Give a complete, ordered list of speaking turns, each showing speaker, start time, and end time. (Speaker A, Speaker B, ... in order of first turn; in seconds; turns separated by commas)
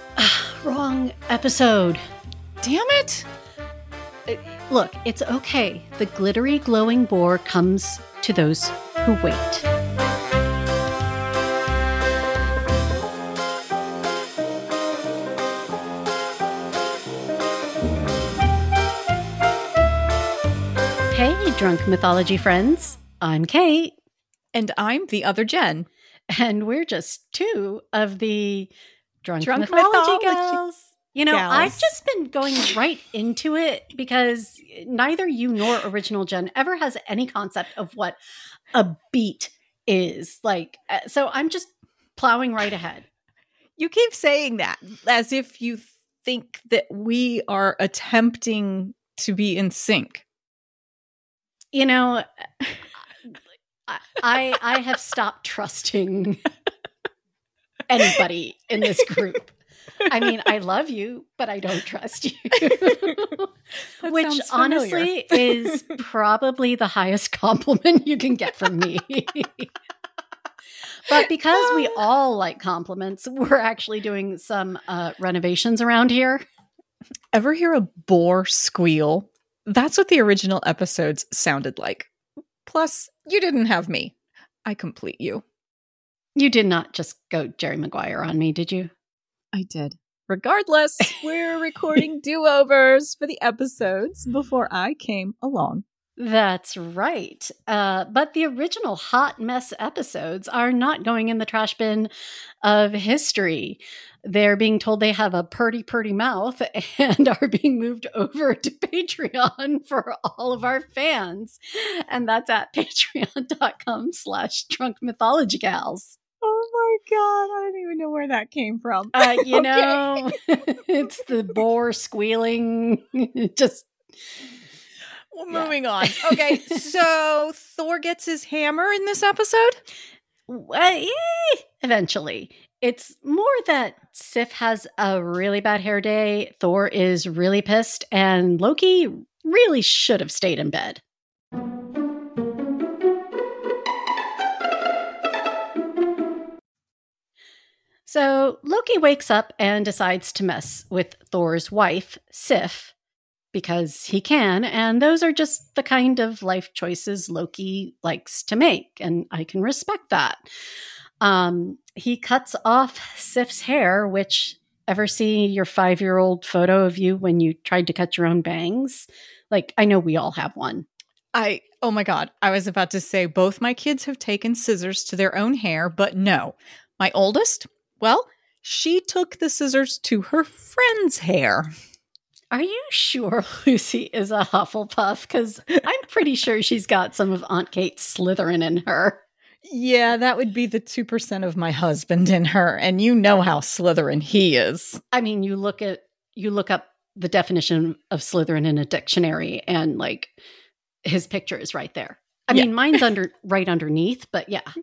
Speaker A: 0.2-2.0, Speaker B: 2.6-3.3, Speaker A: 4.3-9.7, Speaker A: 21.1-23.9, Speaker B: 24.5-25.9, Speaker A: 26.3-28.7, Speaker A: 29.2-38.2, Speaker B: 29.4-30.6, Speaker B: 31.3-31.9, Speaker A: 38.7-43.0, Speaker B: 43.8-50.2, Speaker A: 51.7-52.2, Speaker A: 53.9-56.5, Speaker A: 57.9-59.5, Speaker A: 60.0-63.5, Speaker B: 62.7-63.2, Speaker B: 64.0-65.8, Speaker A: 64.0-69.7, Speaker A: 71.0-76.4, Speaker B: 77.3-82.1, Speaker B: 82.7-84.1, Speaker B: 84.7-85.4, Speaker A: 86.3-88.9, Speaker B: 89.5-95.8, Speaker A: 96.2-102.1, Speaker A: 102.6-116.2, Speaker B: 116.4-120.3, Speaker A: 119.1-123.9, Speaker B: 125.3-129.8, Speaker A: 125.5-126.8, Speaker A: 130.5-141.0, Speaker A: 148.1-152.9, Speaker A: 153.5-160.4, Speaker A: 161.2-170.9, Speaker B: 171.3-181.7, Speaker A: 182.5-189.2, Speaker B: 189.6-195.0, Speaker A: 195.1-200.3, Speaker A: 201.0-204.7